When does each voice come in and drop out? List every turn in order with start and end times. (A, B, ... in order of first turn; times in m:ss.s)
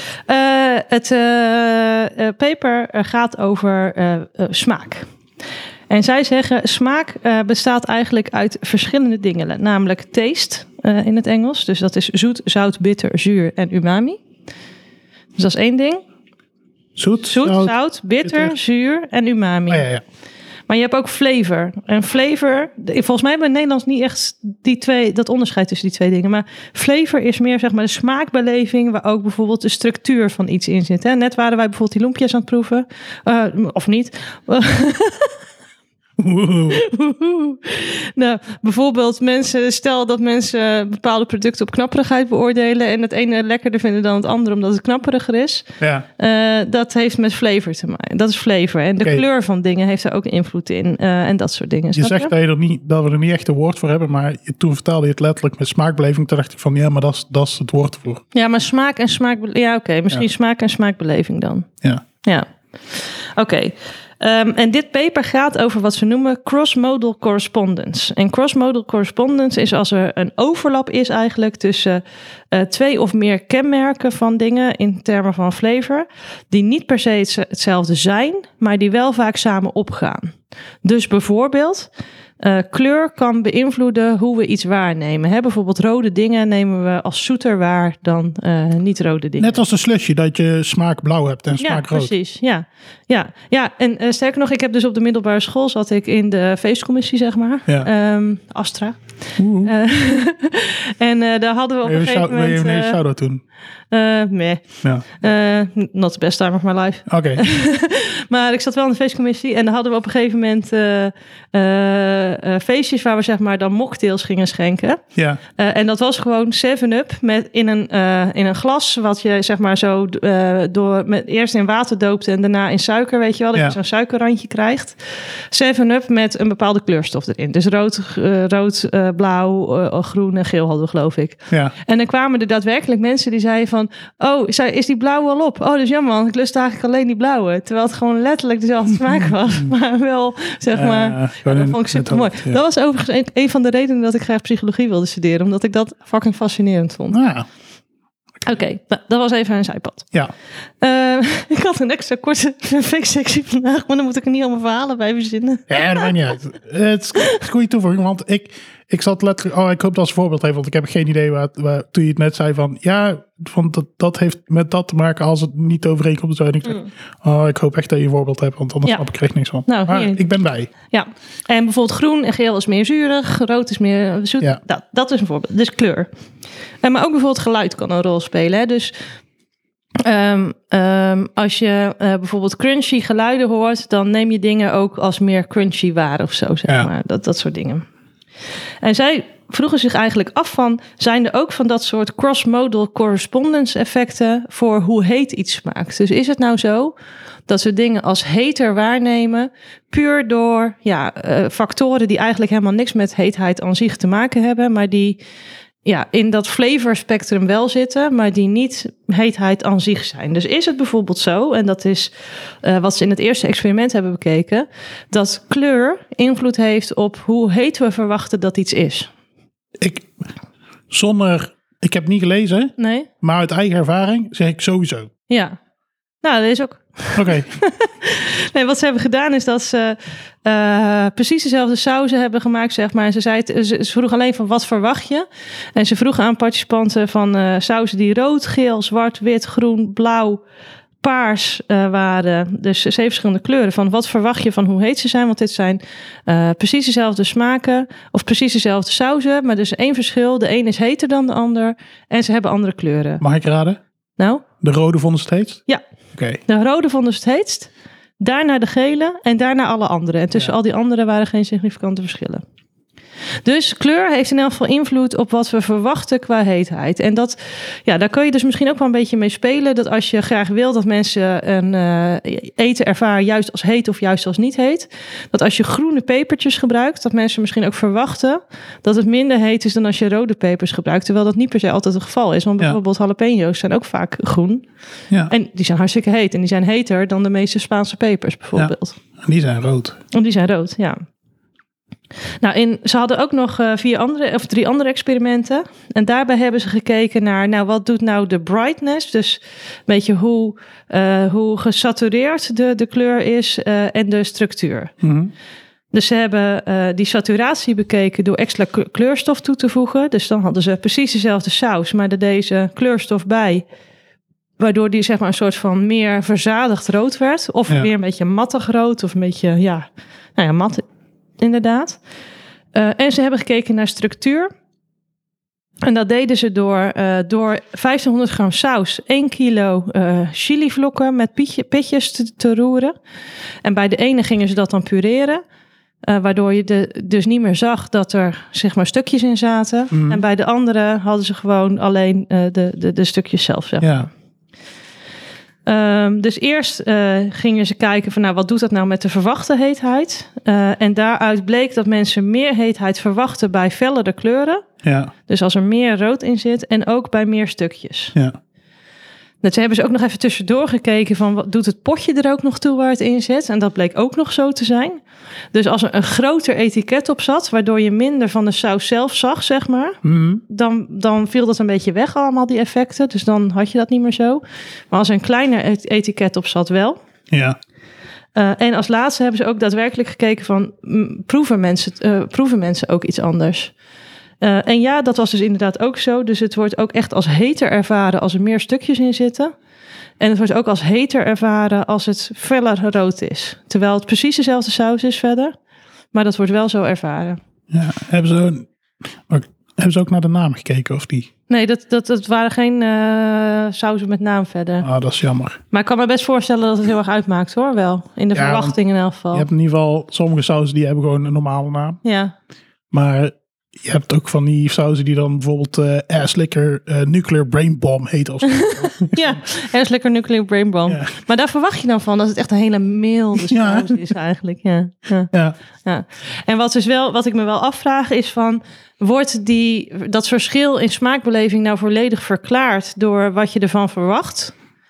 0:00.3-0:05.0 A
0:05.9-0:14.2 A
0:15.4-0:16.0 A
0:17.0-0:18.5 B
0:17.2-0:19.8 A
0:19.7-0:20.0 B
0:20.7-0:35.4 A
0:36.2-0:36.8 B
0:36.7-0:52.3 A
0:45.8-0:46.0 B
0:51.9-0:58.2 B
0:58.3-1:01.7 A
1:02.2-1:29.6 A
1:29.4-1:32.1 B
1:31.6-1:39.0 A
1:39.4-1:39.7 B
1:39.6-1:43.0 A
1:41.8-1:43.4 B
1:43.9-1:55.0 A
1:47.1-1:47.4 B
1:55.1-1:55.4 B
1:55.6-2:05.0 A
2:05.5-2:27.2 A
2:19.2-2:19.7 B
2:20.7-2:22.6 B
2:27.1-2:27.4 B
2:28.4-2:30.1 A
2:30.8-2:36.1 A
2:35.7-2:50.7 B
2:49.6-2:50.2 A
2:50.9-2:56.1 A
2:56.8-2:58.9 A
3:00.0-3:07.8 A
3:08.8-3:16.9 A
3:17.5-3:25.2 A
3:25.8-3:32.1 A
3:32.6-3:39.1 A
3:39.8-3:40.1 B
3:40.9-3:45.1 B
3:42.8-3:43.1 A
3:45.3-3:45.6 A
3:46.2-4:00.4 A
3:47.1-3:47.5 B
4:01.0-4:13.2 A
4:13.2-4:13.8 B
4:14.2-4:14.4 A
4:14.6-4:15.6 B
4:16.1-4:16.4 B
4:16.4-4:22.4 A
4:23.4-4:44.6 A
4:45.3-4:49.0 A
4:48.5-4:50.0 B
4:50.1-4:51.0 A
4:52.4-5:04.9 A
5:05.0-5:05.3 B
5:05.9-5:13.6 A
5:14.6-5:20.8 A
5:21.4-5:22.0 A
5:22.7-5:24.5 A
5:25.8-5:32.9 A
5:33.6-5:35.4 A
5:36.0-5:44.0 A
5:39.9-5:40.2 B
5:43.8-5:44.1 B
5:45.6-5:54.6 A
5:54.8-5:55.1 B
5:55.3-5:58.1 A
5:59.4-6:05.0 A
6:05.5-6:17.0 A
6:10.0-6:10.4 B
6:17.3-6:17.6 B
6:18.4-6:23.7 A
6:24.4-6:29.5 A
6:30.2-6:35.5 A
6:36.1-6:37.4 A
6:37.7-6:38.7 B
6:39.2-6:41.3 B
6:41.5-6:44.8 A
6:44.8-6:45.6 B
6:45.7-6:49.5 A
6:48.3-6:48.8 B
6:49.3-6:52.0 B
6:52.0-6:52.3 A
6:52.9-6:59.4 B
6:58.4-7:05.3 A
7:03.4-7:04.0 B
7:05.8-7:14.5 A